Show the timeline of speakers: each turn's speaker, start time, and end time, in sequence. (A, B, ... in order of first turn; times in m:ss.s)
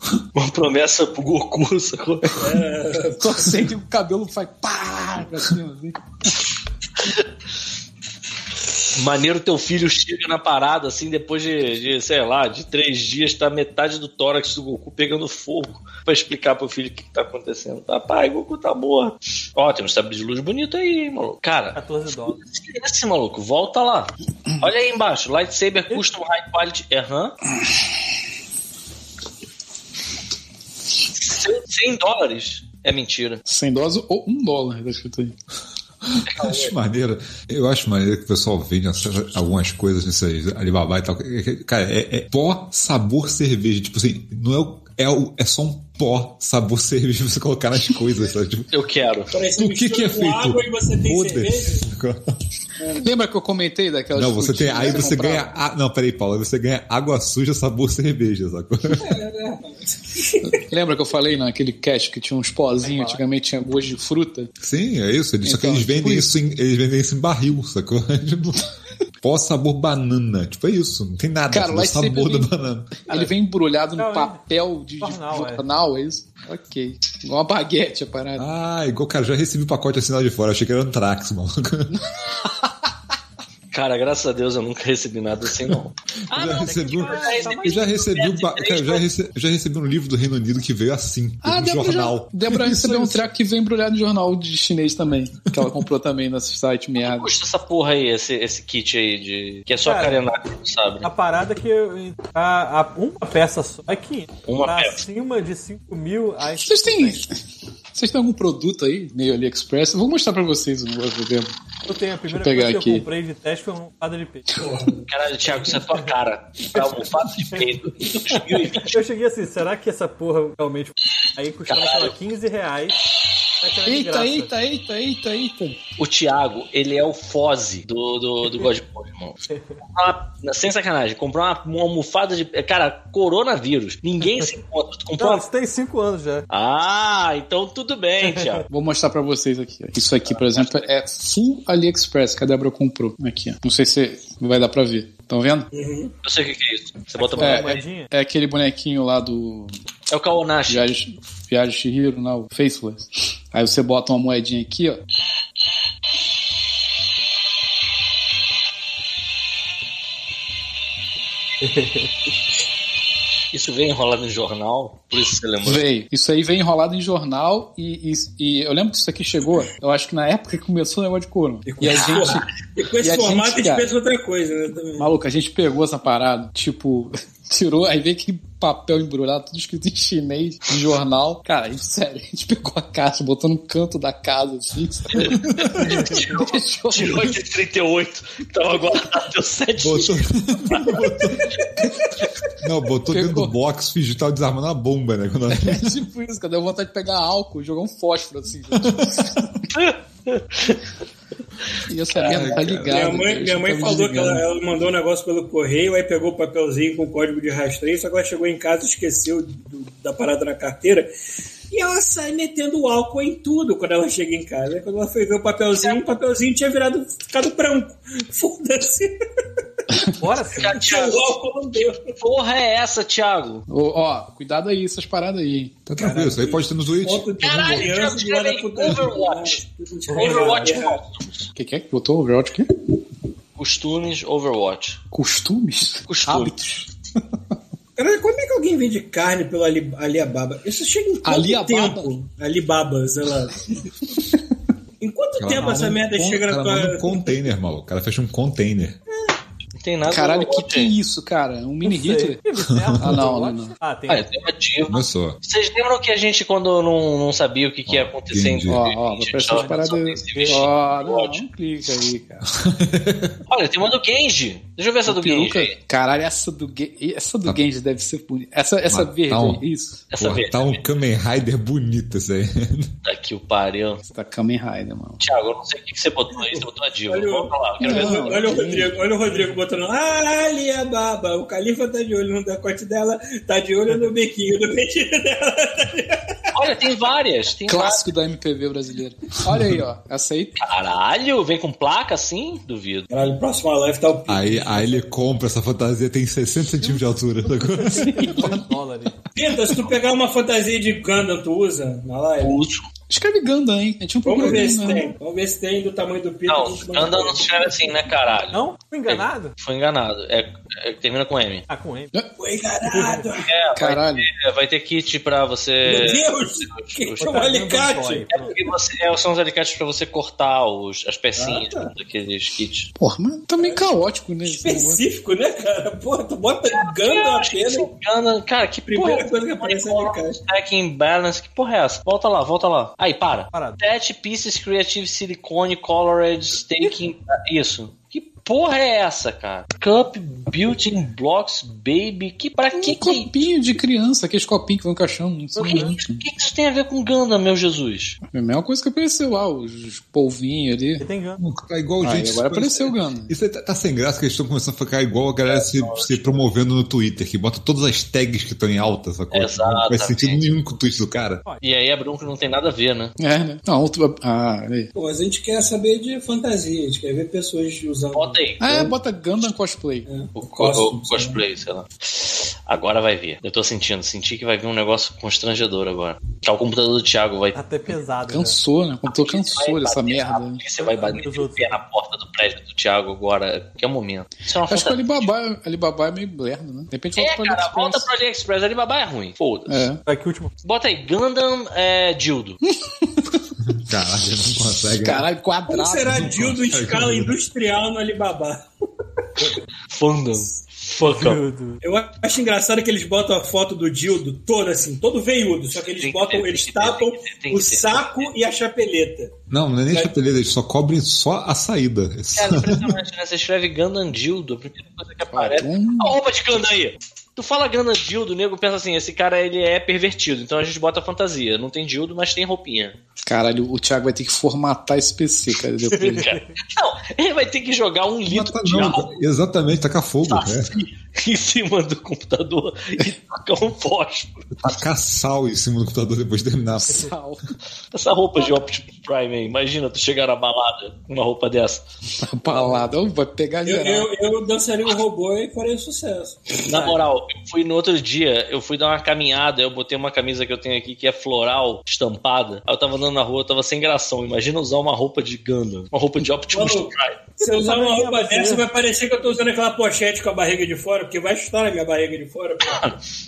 0:00.3-0:02.4 A
0:02.4-0:03.6 B
0:03.2-0:06.3 C
0:08.9-0:21.8 A
0:21.7-0:22.4 D
0:22.4-0:27.4 A
0:31.1-0:33.4 A
0:33.4-0:35.4 C
0:36.1-0:48.7 E
0:36.3-0:36.7 A
0:48.7-0:49.3 A
0:49.3-0:51.8 B
0:49.6-0:52.2 E
0:52.8-0:53.0 B
0:53.0-0:55.6 C
0:54.2-0:59.2 E
0:59.0-1:00.5 B
1:00.4-1:04.5 C
1:02.8-1:03.2 D
1:04.6-1:08.7 E
1:05.4-1:06.4 C
1:09.2-1:13.2 E
1:11.5-1:18.5 C
1:14.0-1:14.4 D
1:15.0-1:15.6 D
1:18.4-1:22.0 E
1:21.9-1:22.7 C
1:23.7-1:29.0 A
1:26.3-1:33.2 E
1:26.6-1:28.0 D
1:31.4-1:37.3 C
1:37.0-1:41.1 A
1:39.8-1:40.2 D
1:41.0-1:47.2 D
1:44.4-1:45.0 A
1:46.6-1:47.4 C
1:47.9-1:51.5 C
1:51.9-1:54.5 D
1:52.3-1:53.0 C
1:54.5-1:55.0 B
1:55.1-1:59.0 A
1:58.8-2:03.0 D
2:01.7-2:02.1 A
2:03.6-2:04.5 D
2:03.8-2:05.8 C
2:06.0-2:15.4 A
2:15.2-2:16.4 D
2:16.5-2:18.6 A
2:18.2-2:18.6 D
2:18.7-2:25.7 C
2:20.3-2:20.9 A
2:25.7-2:26.1 B
2:26.2-2:27.8 A
2:27.1-2:28.1 D
2:27.4-2:29.8 C
2:30.1-2:30.9 A
2:30.7-2:35.0 C
2:41.6-2:42.1 D
2:43.5-2:45.8 A
2:45.6-2:52.5 C
2:51.6-2:55.1 B
2:51.8-2:52.3 A
2:53.0-2:53.9 C
2:55.0-3:07.4 C
3:05.1-3:10.3 A
3:05.4-3:05.8 E
3:05.8-3:06.4 D
3:09.8-3:11.6 E
3:12.6-3:15.9 E
3:13.1-3:13.5 C
3:15.5-3:19.5 C
3:18.8-3:19.2 E
3:19.7-3:20.8 A
3:21.9-3:24.4 C
3:22.2-3:23.1 E
3:22.8-3:31.1 B
3:31.7-3:39.1 B
3:40.2-3:40.8 D
3:40.5-3:41.3 A
3:40.7-3:42.1 B
3:42.2-3:43.6 A
3:43.7-3:45.8 C
3:45.8-3:47.9 E
3:46.0-3:51.0 B
3:47.4-3:49.6 A
3:50.1-3:50.8 D
3:50.1-3:51.5 A
3:51.6-3:52.7 C
3:53.6-3:55.0 A
3:55.1-3:56.9 C
3:56.1-3:56.5 A
3:58.0-4:03.8 B
4:01.2-4:02.1 C
4:05.0-4:07.5 B
4:05.4-4:09.0 E
4:09.8-4:10.9 A
4:10.0-4:12.4 C
4:11.8-4:14.3 D
4:12.8-4:13.2 E
4:13.0-4:13.7 C
4:14.1-4:21.4 A
4:14.8-4:15.4 E
4:17.9-4:18.8 E
4:18.7-4:22.4 C
4:19.5-4:20.7 D
4:22.4-4:23.4 E
4:23.5-4:25.7 A
4:25.0-4:30.0 C
4:28.9-4:29.6 E
4:30.1-4:30.8 A
4:30.2-4:32.9 E
4:33.0-4:34.0 A
4:34.1-4:35.2 C
4:35.2-4:38.4 A
4:36.3-4:46.5 B
4:37.8-4:39.0 C
4:39.2-4:39.6 D
4:46.5-4:48.0 A
4:47.7-4:50.6 C
4:49.4-4:49.8 E
4:50.6-4:53.1 A
4:53.1-4:55.1 B
4:54.3-4:58.6 E
4:57.8-4:59.1 D
4:58.0-4:58.6 C
4:59.3-5:02.6 B
5:02.4-5:02.8 A
5:03.1-5:05.1 C
5:04.2-5:07.7 B
5:06.5-5:11.6 A
5:08.5-5:09.5 D
5:11.7-5:12.1 D
5:12.4-5:13.5 B
5:12.9-5:13.2 D
5:13.4-5:17.2 A
5:13.7-5:14.3 C
5:15.8-5:18.5 B
5:17.2-5:18.5 D
5:18.3-5:22.9 A
5:21.4-5:21.9 B
5:23.0-5:25.0 C
5:23.6-5:27.9 B
5:26.7-5:43.4 A
5:28.9-5:30.4 B
5:33.5-5:33.8 D
5:42.7-5:46.2 C
5:45.6-5:45.9 D
5:45.6-5:48.2 A
5:48.3-5:51.0 C
5:51.0-5:51.4 D
5:51.4-6:01.4 E
5:52.0-5:53.3 C
5:55.5-5:56.3 A
5:59.3-6:00.4 A
6:01.6-6:03.1 A
6:03.2-6:04.9 C
6:05.0-6:08.8 B
6:08.1-6:08.9 A
6:08.6-6:10.0 C
6:10.1-6:11.4 B
6:10.4-6:17.6 A
6:17.5-6:18.6 D
6:18.3-6:20.6 C
6:19.1-6:25.3 A
6:20.9-6:21.8 D
6:24.6-6:28.0 C
6:27.2-6:29.8 A
6:29.7-6:30.0 C
6:30.0-6:30.5 D
6:30.6-6:32.6 A
6:32.7-6:33.4 C
6:33.6-6:35.2 E
6:35.0-6:36.4 C
6:35.7-6:38.6 B
6:36.0-6:37.3 E
6:39.9-6:41.4 A
6:41.0-6:41.8 D
6:41.8-6:49.4 B
6:45.7-6:48.3 A
6:49.5-6:53.0 E
6:52.3-7:03.0 A
6:55.3-6:56.2 C
7:03.2-7:06.3 C
7:05.9-7:06.5 D
7:06.0-7:09.1 A
7:08.3-7:10.7 E
7:10.2-7:14.4 A
7:14.6-7:17.1 E
7:16.8-7:17.4 C
7:17.9-7:21.8 A
7:22.2-7:24.1 C
7:22.5-7:22.8 B
7:23.6-7:27.0 B
7:26.7-7:37.2 A
7:36.5-7:42.9 B
7:37.4-7:38.6 D
7:42.6-7:42.9 A